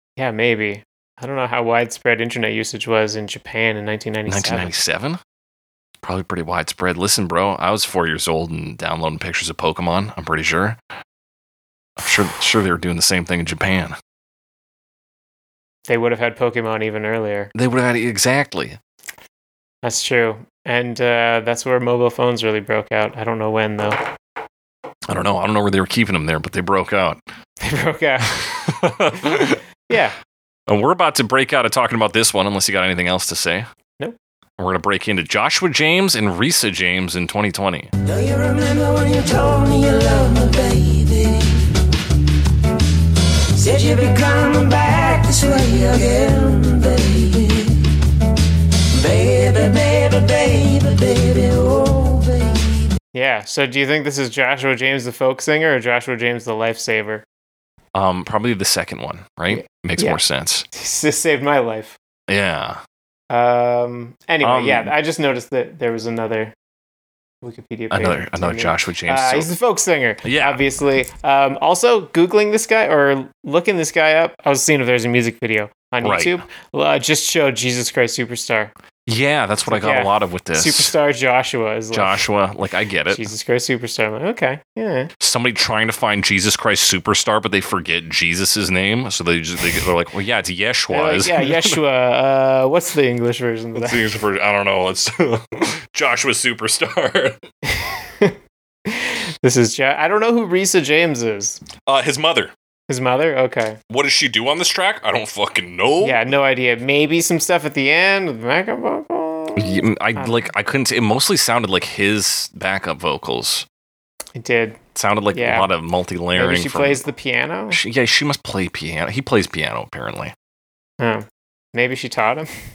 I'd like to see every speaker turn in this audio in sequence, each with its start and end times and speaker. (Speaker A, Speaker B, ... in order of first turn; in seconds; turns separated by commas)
Speaker A: 0.2-4.7, Speaker B: 4.3-5.2, Speaker B: 6.0-10.8, Speaker B: 12.0-13.9, Speaker A: 15.9-17.5, Speaker B: 17.5-18.8, Speaker A: 19.8-24.1, Speaker B: 25.1-27.2, Speaker A: 27.6-28.6, Speaker B: 28.4-29.6, Speaker A: 29.2-30.1, Speaker B: 30.7-33.7, Speaker B: 34.6-37.9, Speaker C: 38.0-41.7, Speaker C: 43.5-47.9, Speaker C: 48.9-52.9, Speaker A: 53.1-57.2, Speaker B: 57.9-60.6, Speaker A: 59.5-60.2, Speaker A: 60.7-62.0, Speaker B: 62.3-62.8, Speaker A: 63.3-66.5, Speaker B: 64.4-64.9, Speaker A: 67.4-78.7, Speaker B: 67.9-69.5, Speaker B: 70.2-70.6, Speaker B: 76.0-76.4, Speaker B: 79.1-80.9, Speaker A: 79.7-82.2, Speaker B: 81.9-83.2, Speaker A: 83.1-85.1, Speaker B: 85.2-91.8, Speaker A: 90.9-94.1, Speaker B: 93.8-97.4, Speaker A: 97.6-101.6, Speaker B: 101.8-102.5, Speaker A: 102.9-103.8, Speaker B: 103.9-106.2, Speaker A: 106.0-110.5, Speaker B: 109.5-113.7, Speaker A: 114.3-114.8, Speaker B: 114.9-117.0, Speaker A: 115.3-115.7, Speaker A: 116.3-117.8, Speaker B: 117.7-120.3, Speaker A: 121.0-122.5